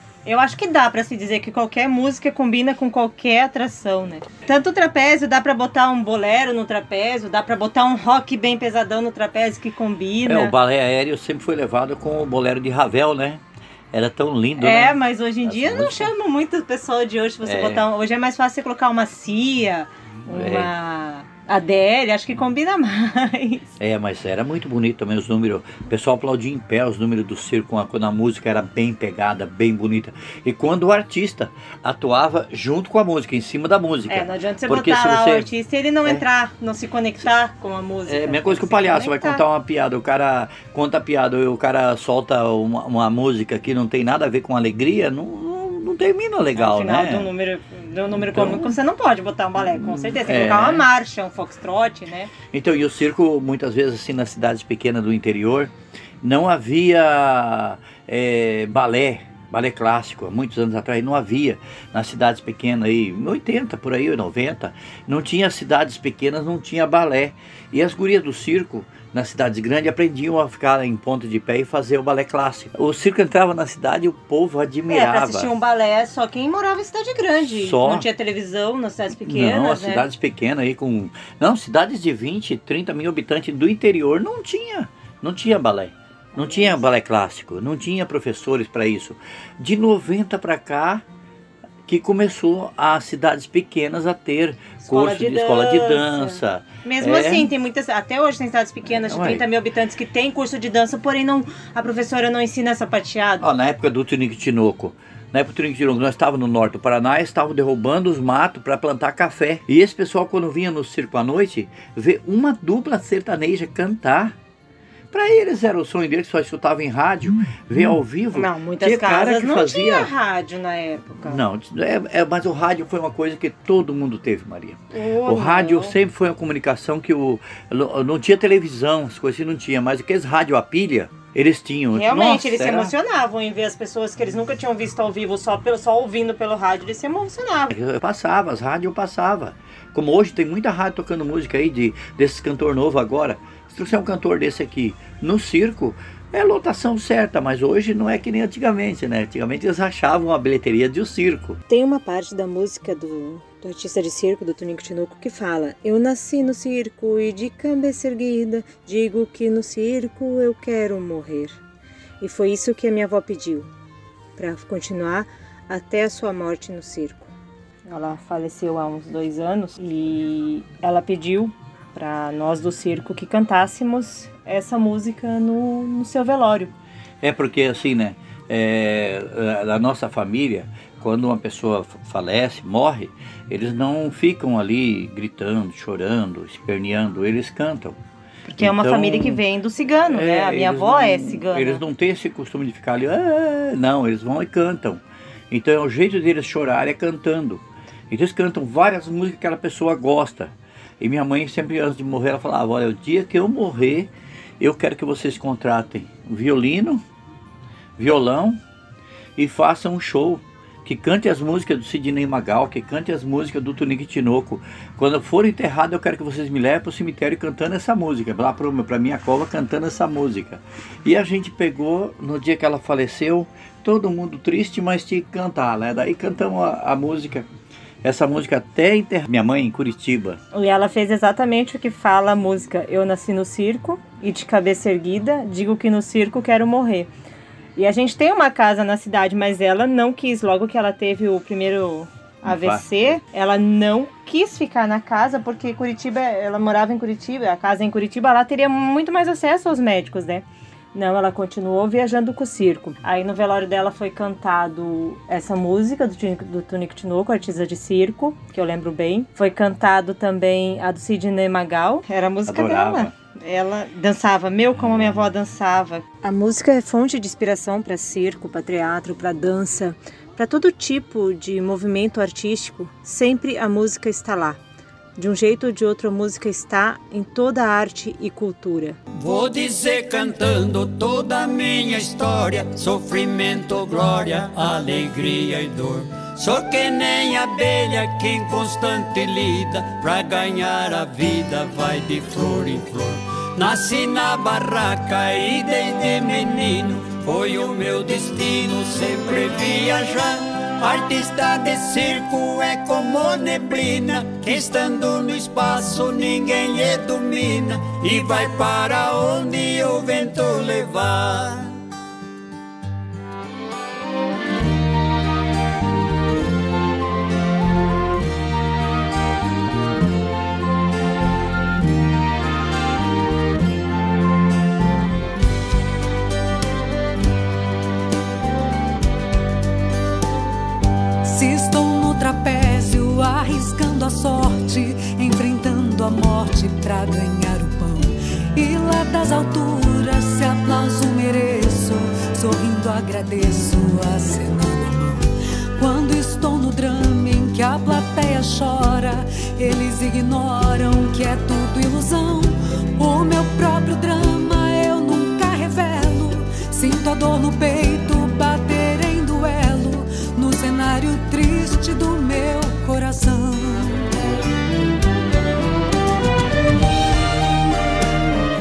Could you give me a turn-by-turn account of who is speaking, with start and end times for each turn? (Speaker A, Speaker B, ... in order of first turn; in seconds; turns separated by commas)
Speaker A: 0.2-10.6, Speaker B: 10.2-16.1, Speaker A: 14.6-23.7, Speaker B: 17.4-17.8, Speaker B: 20.3-20.7, Speaker B: 23.8-35.5, Speaker A: 34.1-39.4, Speaker B: 38.1-47.3, Speaker A: 46.6-52.3, Speaker B: 48.1-48.7, Speaker B: 49.7-50.9, Speaker B: 52.5-75.5, Speaker A: 74.9-80.1, Speaker B: 77.5-78.1, Speaker B: 79.2-91.0, Speaker A: 86.3-86.8, Speaker B: 91.9-97.5, Speaker A: 94.8-103.5, Speaker B: 99.0-99.5, Speaker B: 103.4-114.3, Speaker B: 115.1-120.1, Speaker A: 118.3-121.4, Speaker B: 121.2-132.9, Speaker A: 124.9-126.0, Speaker A: 131.9-137.8, Speaker B: 137.7-151.6, Speaker A: 151.7-161.6, Speaker A: 162.2-163.7, Speaker A: 164.4-167.3, Speaker A: 167.9-176.7, Speaker B: 177.2-188.0, Speaker A: 188.5-191.8, Speaker B: 188.6-189.4, Speaker B: 190.1-207.0, Speaker B: 208.0-208.6, Speaker B: 209.4-227.5, Speaker B: 228.0-230.4, Speaker A: 230.5-237.1, Speaker A: 237.8-274.6, Speaker B: 242.5-243.2, Speaker B: 262.5-263.1, Speaker A: 275.2-279.0, Speaker C: 279.1-311.8, Speaker D: 331.2-364.1